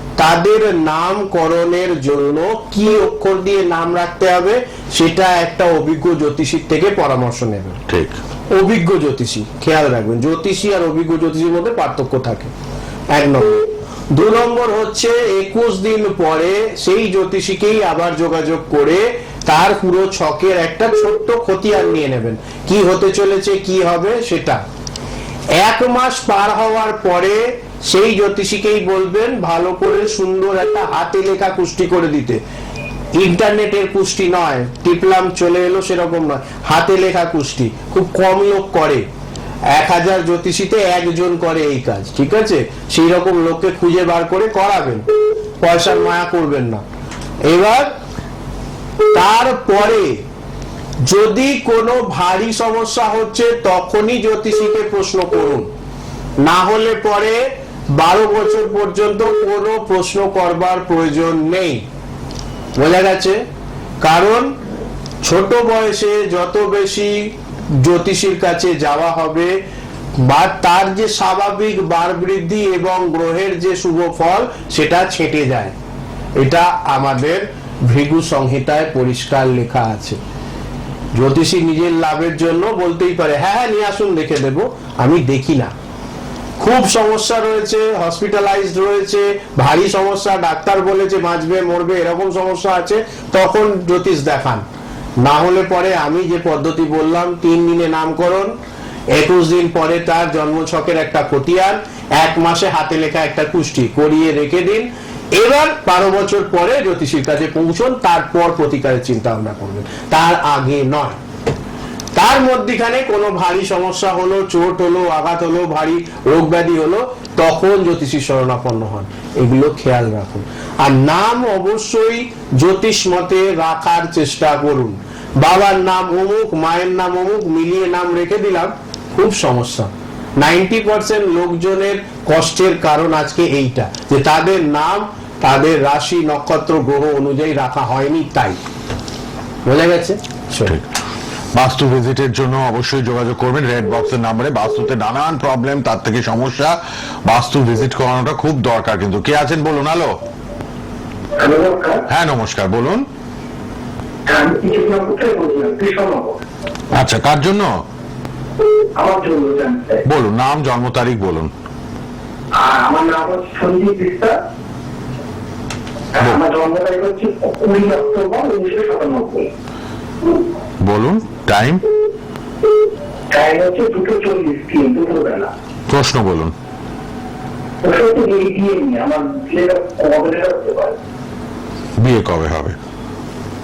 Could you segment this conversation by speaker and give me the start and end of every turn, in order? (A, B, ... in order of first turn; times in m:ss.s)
0:00.2-0:07.8 A
0:07.9-0:08.2 B
0:08.5-0:12.5 A
0:13.1-0:24.6 A
0:25.5-0:32.4 A
0:33.2-0:39.0 A
0:39.7-0:45.0 A
0:45.6-0:46.8 A
0:47.5-0:47.9 A
0:49.1-0:50.2 A
0:51.0-0:55.7 A
0:56.4-0:57.4 A
0:57.9-1:01.8 A
1:02.8-1:03.4 A
1:04.0-1:04.5 A
1:05.2-1:09.5 A
1:10.2-1:15.7 A
1:16.4-1:20.2 A
1:21.2-1:25.7 A
1:26.6-1:34.6 A
1:35.2-1:38.5 A
1:39.1-1:51.2 A
1:52.2-2:18.6 A
2:19.6-2:20.7 A
2:21.5-2:26.8 B
2:27.3-2:30.2 B
2:31.4-2:32.0 C
2:32.1-2:33.0 B
2:34.3-2:36.4 C
2:36.9-2:37.8 B
2:38.9-2:40.0 C
2:40.0-2:41.5 B
2:42.5-2:44.4 C
2:46.1-2:49.5 C
2:50.8-2:51.8 B
2:53.3-2:55.5 C
2:55.9-2:56.5 B
2:57.8-3:01.0 C
3:02.0-3:02.8 B